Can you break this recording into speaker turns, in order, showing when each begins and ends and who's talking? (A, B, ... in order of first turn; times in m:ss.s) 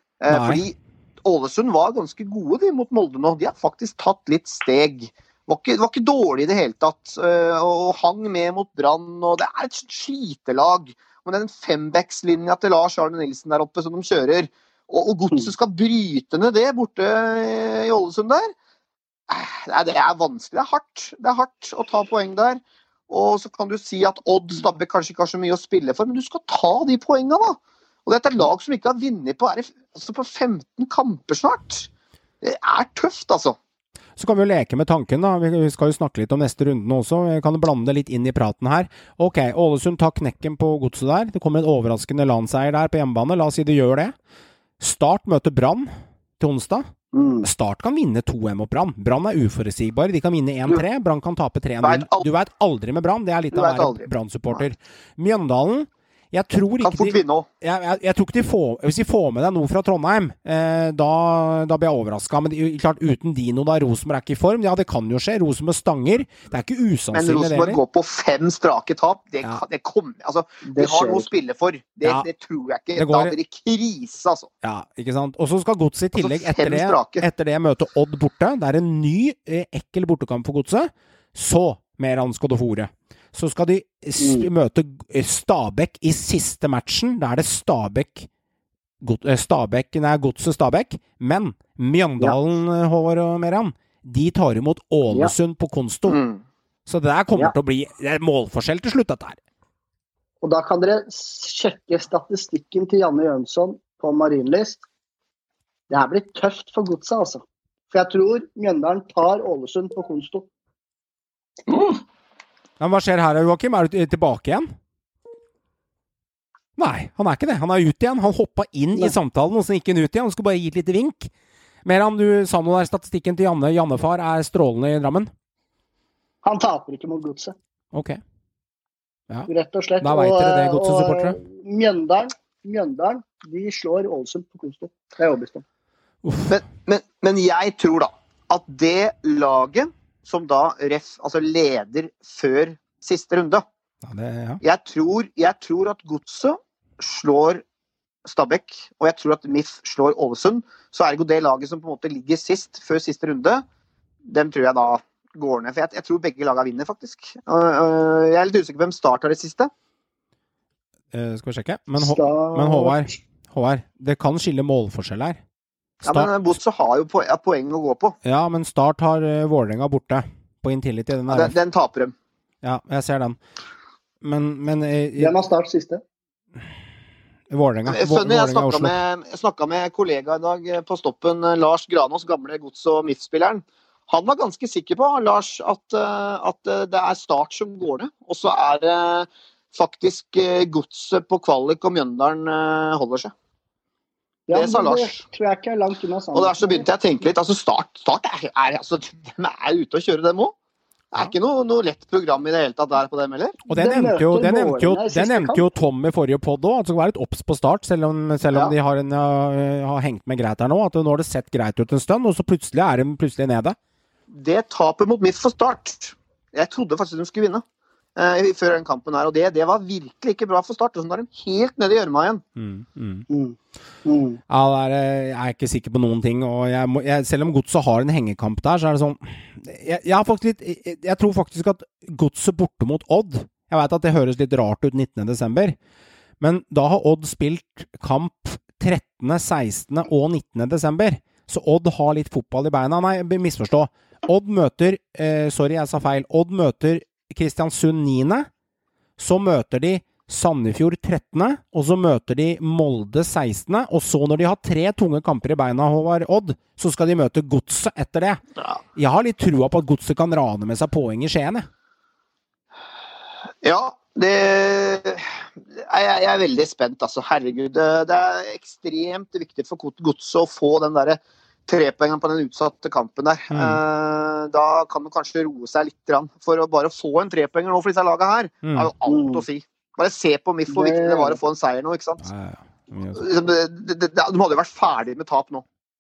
0:00.2-0:18.5 A
0:00.3-0:00.6 B
0:19.3-0:31.9 A
0:32.4-0:33.6 A
0:34.2-0:44.1 B
0:44.8-0:46.9 B
0:47.1-0:47.5 C
0:47.4-1:07.8 B
0:51.8-0:52.2 A
0:53.5-0:54.6 A
0:56.8-0:57.5 A
1:07.1-1:14.5 A
1:10.6-1:11.3 C
1:13.0-1:13.4 B
1:14.6-1:28.3 B
1:16.2-1:17.3 A
1:24.2-1:24.5 C
1:29.0-1:36.2 B
1:36.1-1:36.4 A
1:36.9-1:39.4 B
1:40.4-1:44.8 C
1:45.9-1:50.5 C
1:51.7-1:52.0 A
1:52.8-1:54.7 B
1:56.8-2:01.3 B
2:01.8-2:05.3 B
2:06.4-2:07.6 C
2:07.9-2:08.2 B
2:09.3-2:11.4 B
2:09.5-2:15.6 C
2:16.2-2:16.6 B
2:16.5-2:23.6 A
2:24.0-2:24.6 B
2:24.6-2:27.6 A
2:28.3-2:33.6 A
2:34.2-2:39.7 A
2:41.1-2:45.4 B
2:42.0-2:43.2 C
2:46.0-2:46.3 B
2:46.1-2:48.2 A
2:48.2-2:51.6 B
2:51.3-2:52.1 A
2:52.6-2:53.4 B
2:54.2-2:55.4 B
2:55.2-2:56.0 C
2:57.5-2:58.9 B
2:57.9-3:13.3 A
3:14.5-3:16.9 C
3:14.5-3:15.2 A
3:16.3-3:20.5 A
3:21.1-3:23.6 A
3:23.6-3:25.7 C
3:23.7-3:33.8 B
3:34.3-3:37.6 A
3:38.2-3:42.4 A
3:42.6-3:43.3 B
3:43.3-3:44.4 C
3:44.5-3:55.8 B
3:56.4-4:08.5 B
4:09.2-4:18.4 B
4:19.0-4:21.7 B
4:23.6-4:25.2 A
4:25.8-4:42.3 A
4:33.5-4:33.8 B
4:38.6-4:38.9 B
4:39.1-4:39.4 C
4:40.7-4:41.4 C
4:42.2-4:43.2 B
4:43.2-4:45.6 A